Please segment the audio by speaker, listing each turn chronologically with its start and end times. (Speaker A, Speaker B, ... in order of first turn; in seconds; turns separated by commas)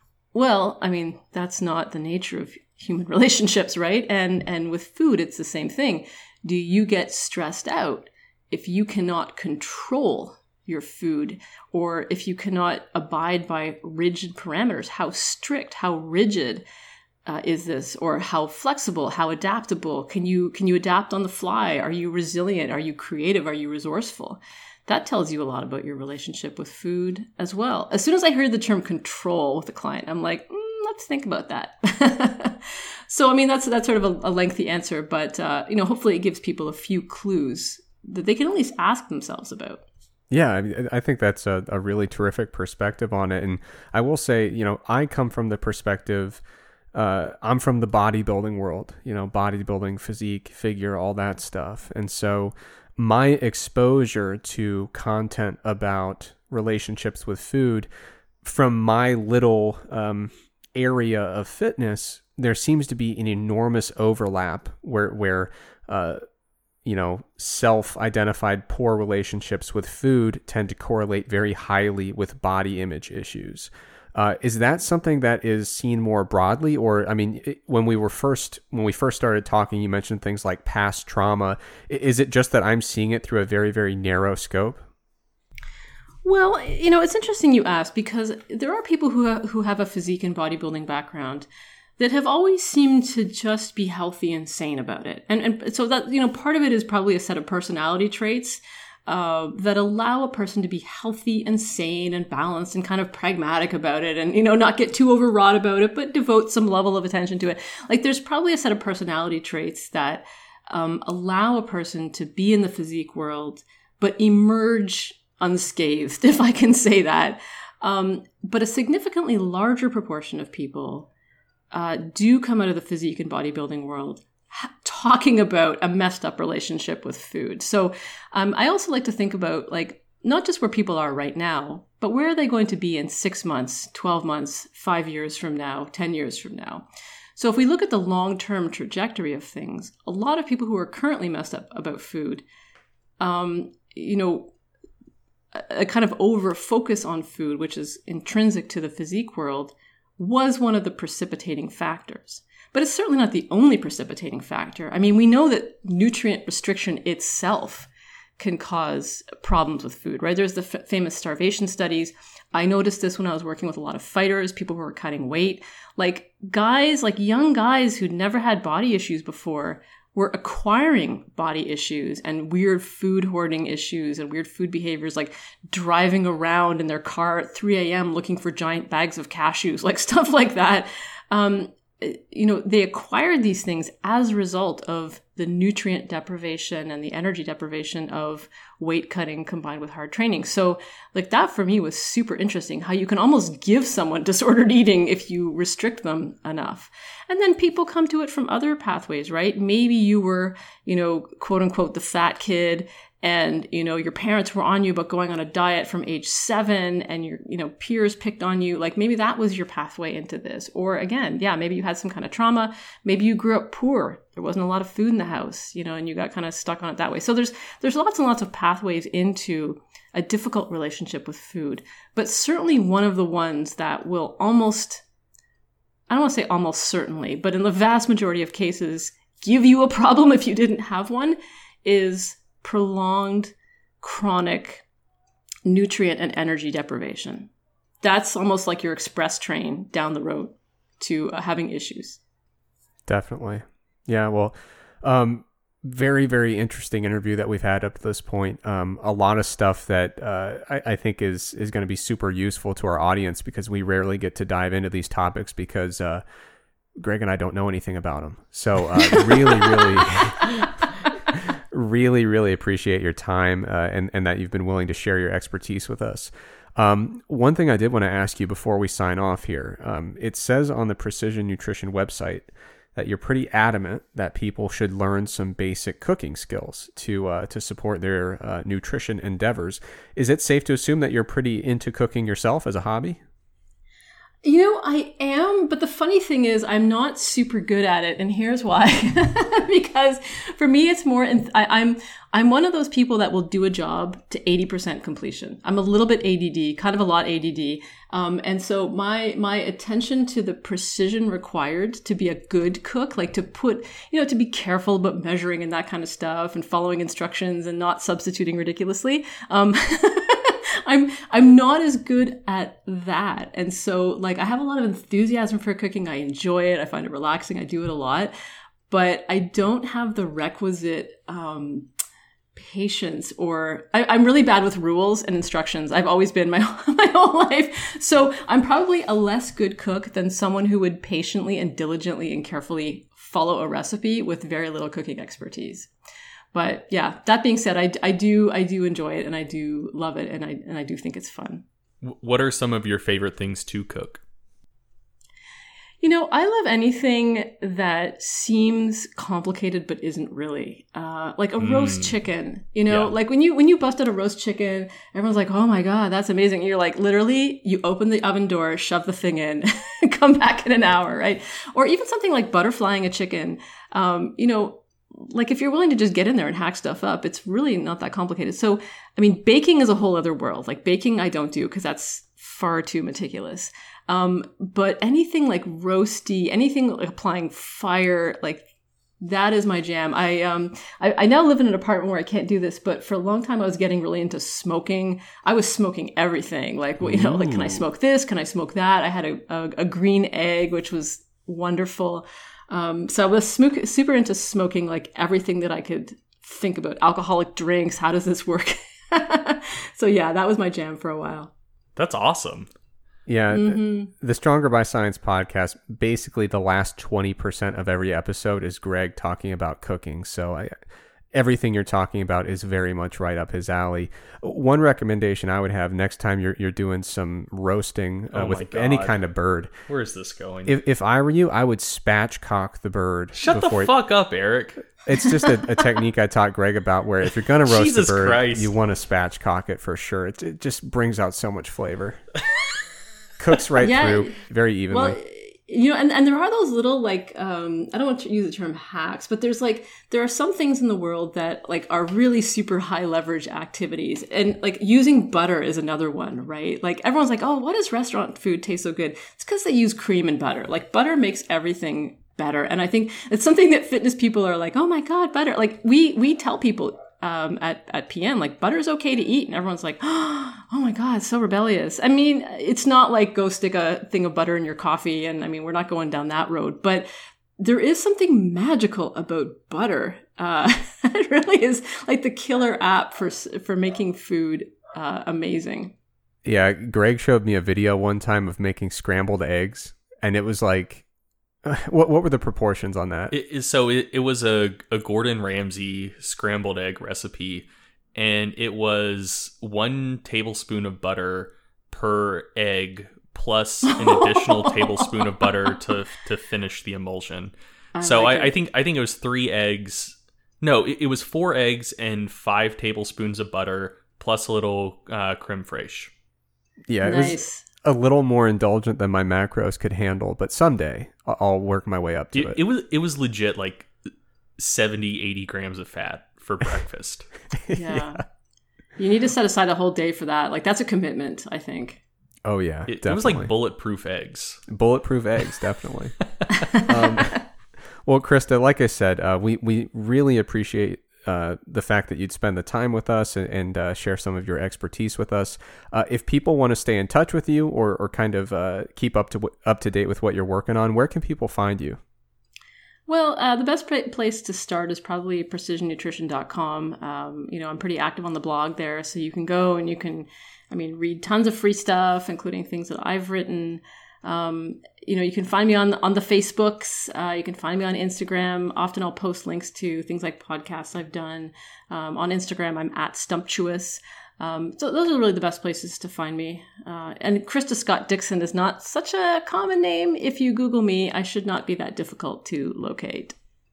Speaker A: 0.3-16.6, Speaker A: 17.2-39.8, Speaker B: 40.3-46.4, Speaker B: 46.9-57.9, Speaker B: 58.4-66.2, Speaker B: 66.8-84.8, Speaker A: 86.2-121.1, Speaker A: 121.7-136.8, Speaker A: 137.3-142.4, Speaker A: 143.2-144.5, Speaker A: 145.5-225.0, Speaker A: 226.1-234.8, Speaker A: 235.7-237.5, Speaker A: 238.0-242.2, Speaker B: 243.1-256.2, Speaker B: 257.0-260.7, Speaker B: 261.3-283.2, Speaker A: 284.4-318.3, Speaker A: 318.9-321.9, Speaker A: 322.5-335.9, Speaker A: 336.5-341.6, Speaker C: 342.0-344.2, Speaker A: 346.0-378.7, Speaker C: 351.6-352.1, Speaker A: 379.2-401.5, Speaker B: 387.0-387.8, Speaker C: 401.9-402.7, Speaker B: 403.3-410.8, Speaker A: 403.5-404.1, Speaker B: 411.3-419.7, Speaker C: 418.3-419.2, Speaker C: 419.9-420.8, Speaker B: 420.6-423.9, Speaker C: 423.4-424.8, Speaker B: 425.1-432.2, Speaker C: 427.5-428.7, Speaker B: 433.4-435.2, Speaker A: 433.8-434.4, Speaker A: 434.9-467.1, Speaker A: 467.6-475.9, Speaker B: 476.4-481.1, Speaker B: 481.6-483.3, Speaker C: 483.3-506.1, Speaker A: 493.9-495.5, Speaker A: 497.9-498.5, Speaker B: 506.9-512.6, Speaker A: 507.0-507.6, Speaker C: 512.3-513.9, Speaker C: 514.6-517.3, Speaker B: 517.7-518.2, Speaker A: 517.7-518.2, Speaker A: 519.0-522.0, Speaker B: 522.4-523.5, Speaker C: 522.9-524.6, Speaker B: 524.7-526.1, Speaker A: 526.7-527.2, Speaker B: 526.8-527.4, Speaker B: 528.0-542.0, Speaker A: 543.1-573.4